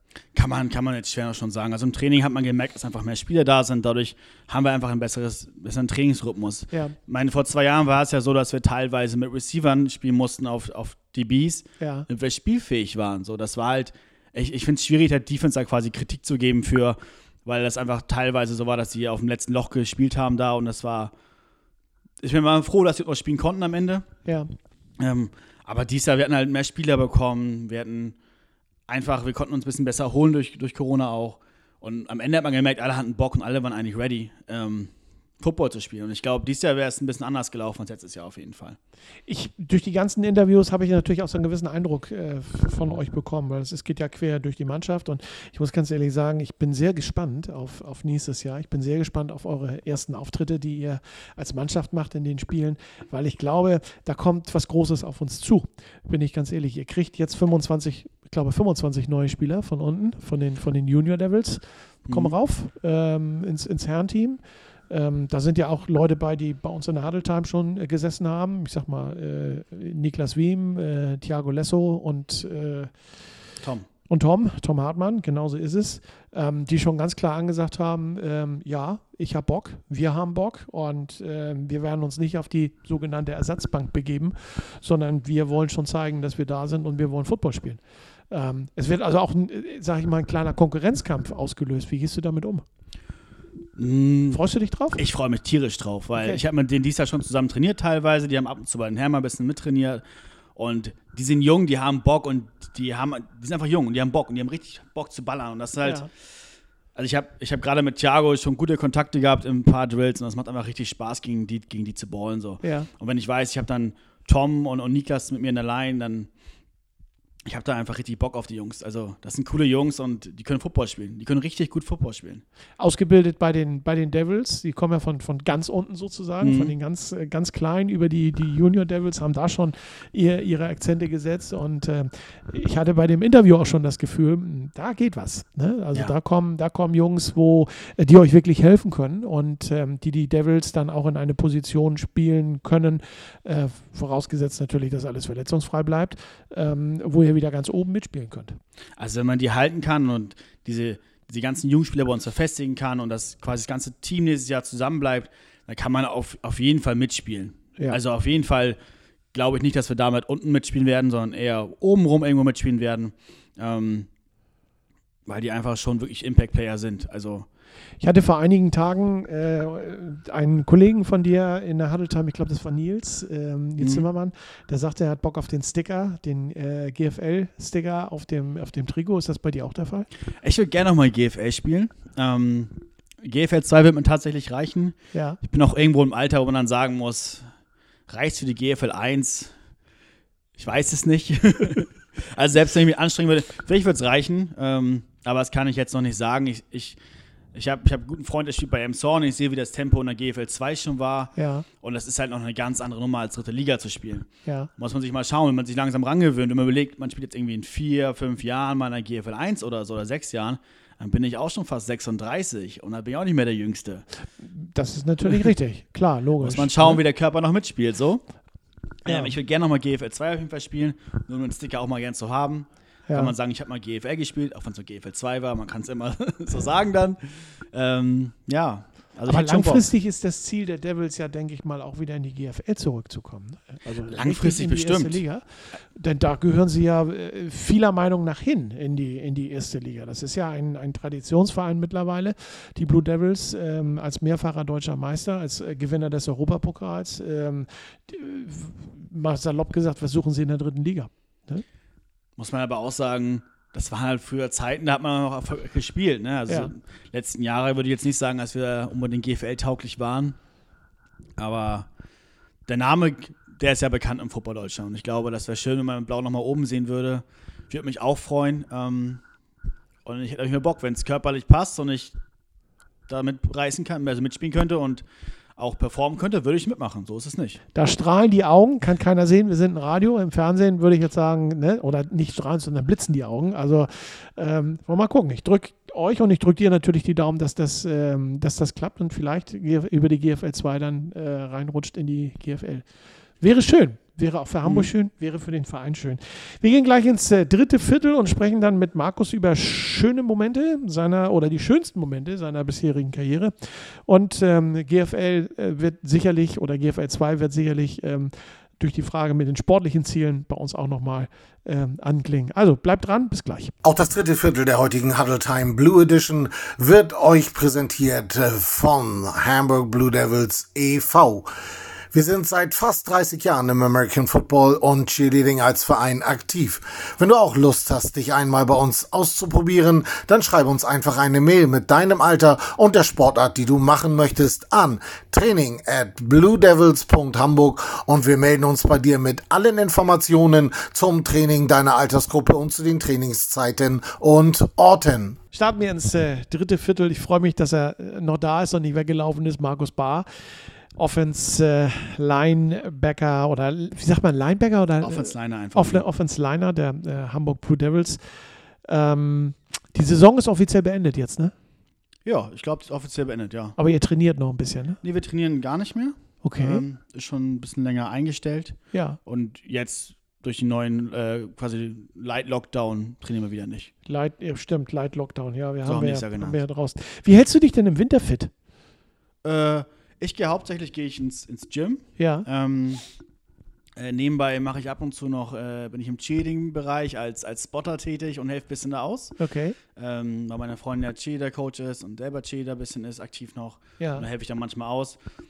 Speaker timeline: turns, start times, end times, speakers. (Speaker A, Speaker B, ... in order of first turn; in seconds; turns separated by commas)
Speaker A: 0.3-21.1, Speaker B: 11.8-12.1, Speaker A: 22.2-24.1, Speaker A: 25.0-28.1, Speaker A: 28.9-38.8, Speaker B: 39.3-72.9, Speaker A: 62.1-62.3, Speaker A: 73.6-73.9, Speaker B: 74.1-87.8, Speaker B: 88.3-92.6, Speaker A: 93.8-94.4, Speaker B: 94.3-95.0, Speaker A: 95.0-100.0, Speaker B: 96.2-96.4, Speaker A: 100.5-106.0, Speaker B: 105.8-106.1, Speaker A: 107.0-116.3, Speaker B: 112.6-112.9, Speaker A: 117.5-122.4, Speaker B: 122.8-148.6, Speaker A: 126.4-126.7, Speaker A: 149.0-158.8, Speaker A: 159.3-164.1, Speaker A: 165.3-167.5, Speaker B: 168.0-180.1, Speaker A: 173.8-174.0, Speaker A: 180.4-187.4, Speaker B: 185.1-185.4, Speaker A: 188.1-189.5, Speaker A: 190.6-197.0, Speaker A: 197.5-214.0, Speaker B: 201.3-201.7, Speaker B: 204.4-204.7, Speaker B: 214.4-217.0, Speaker A: 216.4-218.2, Speaker A: 219.0-229.9, Speaker B: 219.1-219.3, Speaker B: 223.1-223.3, Speaker B: 229.3-235.4, Speaker A: 234.1-235.2, Speaker B: 235.9-251.6, Speaker A: 252.4-260.4, Speaker A: 261.4-261.9, Speaker A: 262.7-269.2, Speaker A: 270.0-272.1, Speaker A: 273.1-275.0, Speaker A: 275.6-277.6, Speaker B: 277.7-292.8, Speaker B: 293.4-313.7, Speaker A: 294.6-294.9, Speaker C: 313.8-321.5, Speaker C: 322.1-345.4, Speaker B: 345.5-350.2, Speaker B: 350.9-358.2, Speaker A: 355.0-356.0, Speaker B: 358.8-361.5, Speaker A: 362.2-363.8, Speaker B: 363.8-365.0, Speaker A: 365.0-373.9, Speaker B: 366.4-366.8, Speaker B: 368.9-369.2, Speaker B: 374.1-378.5, Speaker A: 375.8-376.6, Speaker A: 379.4-383.0, Speaker B: 382.2-382.5, Speaker A: 384.0-389.4, Speaker B: 389.4-389.8, Speaker A: 389.9-395.2, Speaker B: 394.0-394.2